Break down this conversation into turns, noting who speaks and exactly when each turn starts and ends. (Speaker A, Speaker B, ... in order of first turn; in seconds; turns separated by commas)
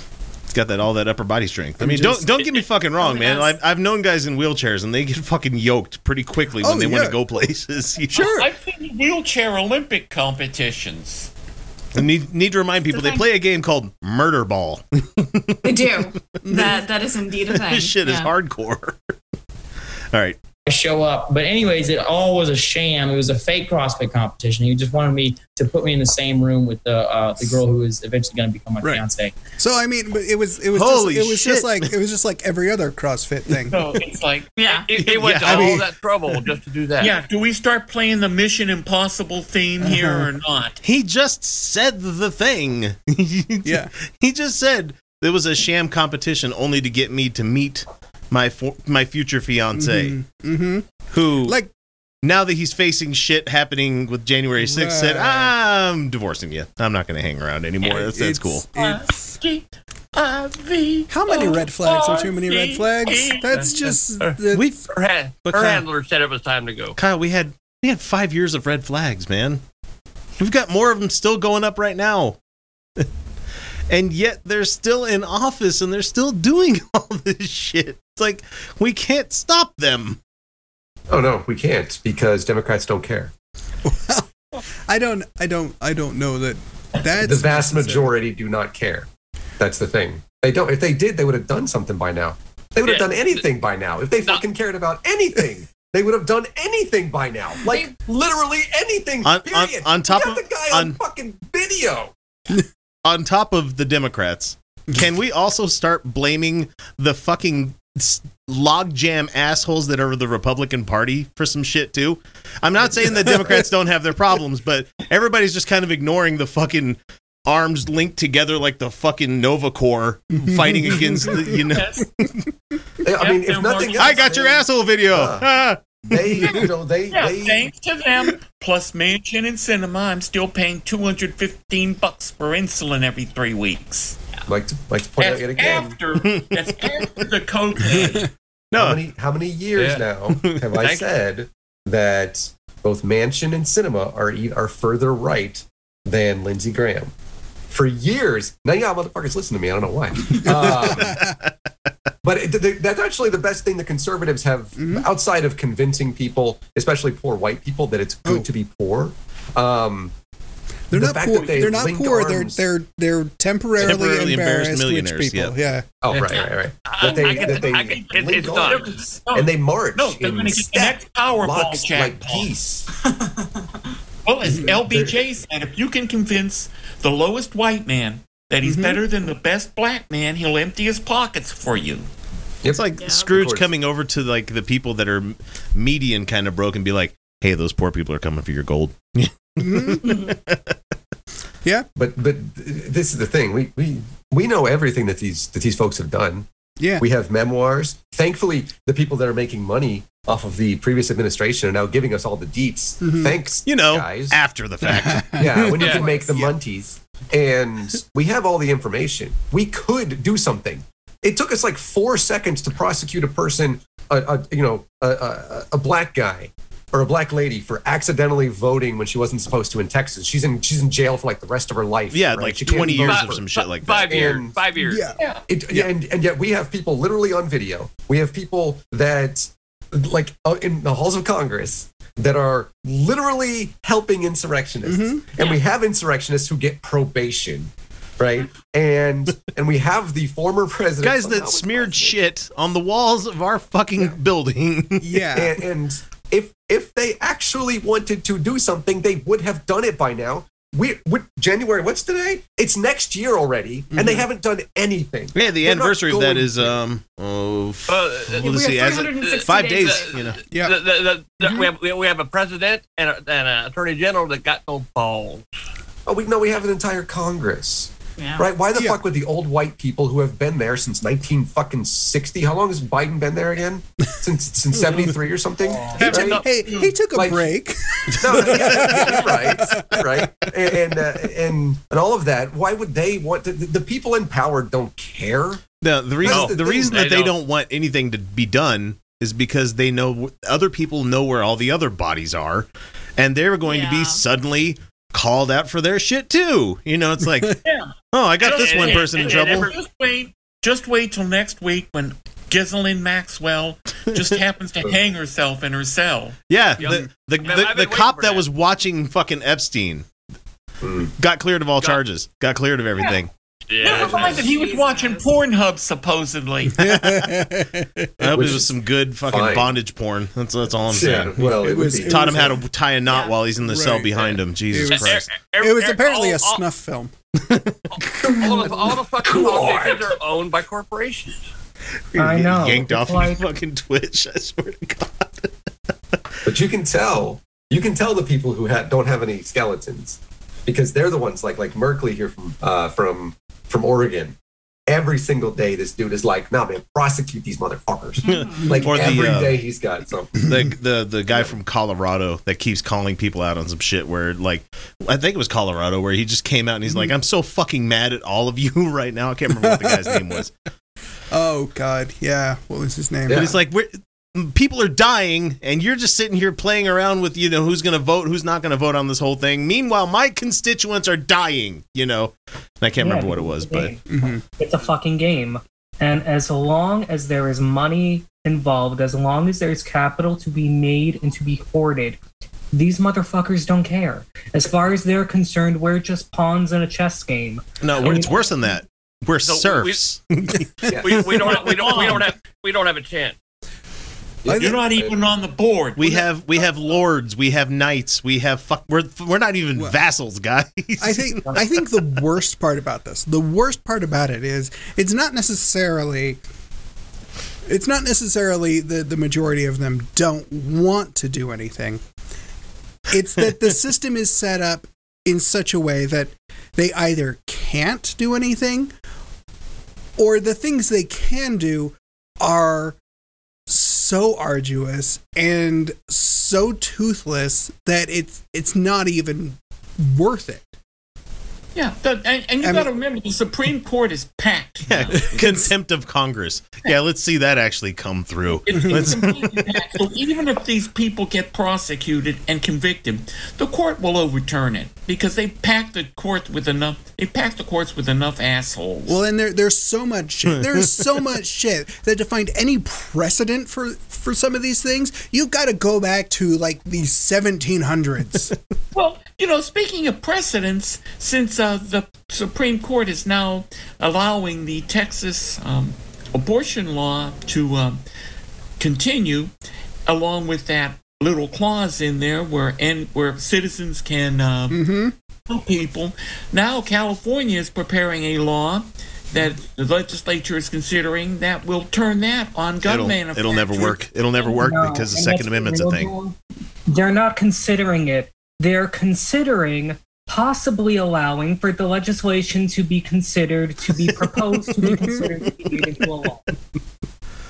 Speaker A: 0.5-8.4, Speaker B: 1.8-2.4, Speaker C: 3.0-3.5, Speaker B: 6.6-7.2, Speaker B: 8.1-8.5, Speaker D: 8.2-11.3, Speaker A: 11.9-16.4, Speaker C: 12.9-13.3, Speaker C: 15.6-18.3, Speaker B: 16.4-16.8, Speaker A: 17.5-19.1, Speaker A: 20.1-20.4, Speaker E: 20.7-29.3, Speaker B: 29.6-33.8, Speaker A: 30.7-31.9, Speaker D: 33.7-34.6, Speaker C: 34.6-34.9, Speaker F: 34.6-37.1, Speaker A: 35.0-35.8, Speaker B: 35.4-35.9, Speaker D: 37.0-40.8, Speaker B: 39.8-40.3, Speaker A: 40.8-50.2, Speaker B: 43.6-43.9, Speaker B: 49.8-51.7, Speaker A: 51.1-51.6, Speaker A: 52.2-58.7, Speaker B: 54.6-55.5, Speaker B: 58.1-59.4, Speaker D: 58.8-63.9, Speaker B: 61.1-64.7, Speaker A: 64.5-64.8, Speaker F: 64.9-67.0, Speaker A: 65.4-65.9, Speaker A: 67.0-69.6, Speaker A: 70.4-72.4, Speaker A: 73.9-80.2, Speaker G: 81.1-83.3, Speaker B: 83.8-84.3, Speaker B: 84.9-88.2, Speaker G: 87.2-89.1, Speaker G: 89.6-102.1, Speaker F: 92.8-93.4, Speaker A: 99.2-101.0, Speaker A: 103.0-122.3, Speaker G: 112.8-113.7, Speaker B: 120.4-121.6, Speaker D: 121.7-122.1, Speaker G: 123.0-125.5, Speaker D: 123.2-124.5, Speaker A: 124.0-125.8, Speaker G: 126.0-127.7, Speaker D: 126.5-134.2, Speaker G: 134.5-136.0, Speaker D: 135.2-138.3, Speaker A: 136.2-136.5, Speaker A: 138.7-139.0, Speaker G: 138.7-147.1, Speaker F: 139.7-140.0, Speaker F: 140.8-141.1, Speaker G: 147.7-151.2, Speaker B: 150.3-151.4, Speaker A: 150.6-151.5, Speaker G: 152.2-160.1, Speaker B: 154.8-155.1, Speaker B: 160.9-165.9, Speaker G: 160.9-162.6, Speaker A: 163.8-165.6, Speaker G: 166.0-172.9, Speaker F: 166.1-169.1, Speaker D: 167.2-172.5, Speaker D: 174.2-182.1, Speaker G: 174.7-175.2, Speaker B: 178.6-179.0, Speaker G: 182.6-183.7, Speaker A: 182.7-190.7, Speaker C: 183.0-183.4, Speaker B: 189.6-190.2, Speaker C: 190.0-190.3, Speaker G: 192.0-196.5, Speaker B: 196.8-197.0, Speaker G: 197.0-204.4, Speaker B: 203.0-203.4, Speaker A: 203.7-205.8, Speaker B: 204.8-206.5, Speaker G: 205.3-223.4, Speaker F: 205.8-206.3, Speaker A: 222.1-224.4, Speaker F: 222.9-225.1, Speaker G: 223.9-224.6, Speaker B: 224.8-225.2, Speaker G: 225.5-242.2, Speaker B: 234.8-235.2, Speaker A: 241.0-245.2, Speaker B: 245.0-245.6, Speaker G: 245.3-256.8, Speaker B: 253.9-254.3, Speaker A: 255.3-260.4, Speaker F: 257.9-265.4, Speaker C: 258.4-260.3, Speaker B: 260.5-260.8, Speaker B: 261.4-261.7, Speaker G: 266.1-276.4, Speaker B: 274.7-275.2, Speaker F: 275.8-276.4, Speaker D: 276.0-277.0, Speaker B: 276.1-280.5, Speaker G: 277.1-277.5, Speaker G: 278.2-285.6, Speaker A: 285.8-299.7, Speaker G: 286.2-287.1, Speaker F: 286.3-287.4, Speaker C: 293.6-294.2, Speaker F: 298.4-299.8, Speaker D: 298.4-306.4, Speaker A: 306.5-310.1, Speaker B: 306.8-307.1, Speaker F: 306.8-308.5, Speaker G: 310.8-311.1, Speaker A: 311.2-313.3, Speaker F: 313.7-314.6, Speaker D: 313.8-316.8, Speaker G: 313.9-314.5, Speaker C: 314.4-315.3, Speaker B: 316.8-318.6, Speaker A: 316.8-317.3, Speaker A: 318.2-325.4, Speaker G: 318.3-319.8, Speaker G: 320.9-322.6, Speaker B: 321.4-322.6, Speaker C: 323.1-323.4, Speaker B: 323.6-327.1, Speaker F: 324.9-326.6, Speaker A: 327.5-328.4, Speaker F: 328.2-331.4, Speaker G: 329.2-330.1, Speaker A: 332.1-335.5, Speaker H: 332.2-333.4, Speaker G: 336.4-344.4, Speaker G: 344.9-350.6, Speaker C: 348.2-348.8, Speaker A: 348.3-349.6, Speaker A: 350.4-360.5, Speaker G: 351.3-351.6, Speaker B: 359.5-360.4, Speaker B: 361.3-363.5, Speaker G: 363.3-363.6, Speaker A: 363.3-373.9, Speaker H: 373.0-374.0, Speaker B: 374.1-374.4, Speaker H: 374.6-382.2, Speaker H: 382.7-388.4, Speaker A: 387.8-392.0, Speaker F: 389.4-390.0, Speaker G: 390.9-391.2, Speaker F: 391.0-393.4, Speaker D: 391.3-392.2, Speaker G: 394.4-395.1, Speaker B: 394.5-394.8, Speaker D: 394.5-396.3, Speaker A: 396.0-401.8, Speaker B: 401.0-406.4, Speaker B: 407.7-412.0, Speaker B: 413.1-418.9, Speaker B: 420.2-423.0, Speaker B: 423.7-430.8, Speaker D: 431.8-435.6, Speaker B: 432.6-432.9, Speaker A: 434.9-439.6, Speaker B: 435.2-435.6, Speaker D: 438.7-449.2, Speaker B: 438.7-439.2, Speaker B: 449.1-458.5, Speaker D: 458.9-468.0, Speaker D: 468.8-469.5, Speaker D: 470.1-474.8, Speaker B: 474.7-475.1, Speaker D: 475.5-484.0, Speaker A: 482.8-486.1, Speaker H: 484.4-486.4, Speaker H: 486.9-496.4, Speaker B: 494.9-495.2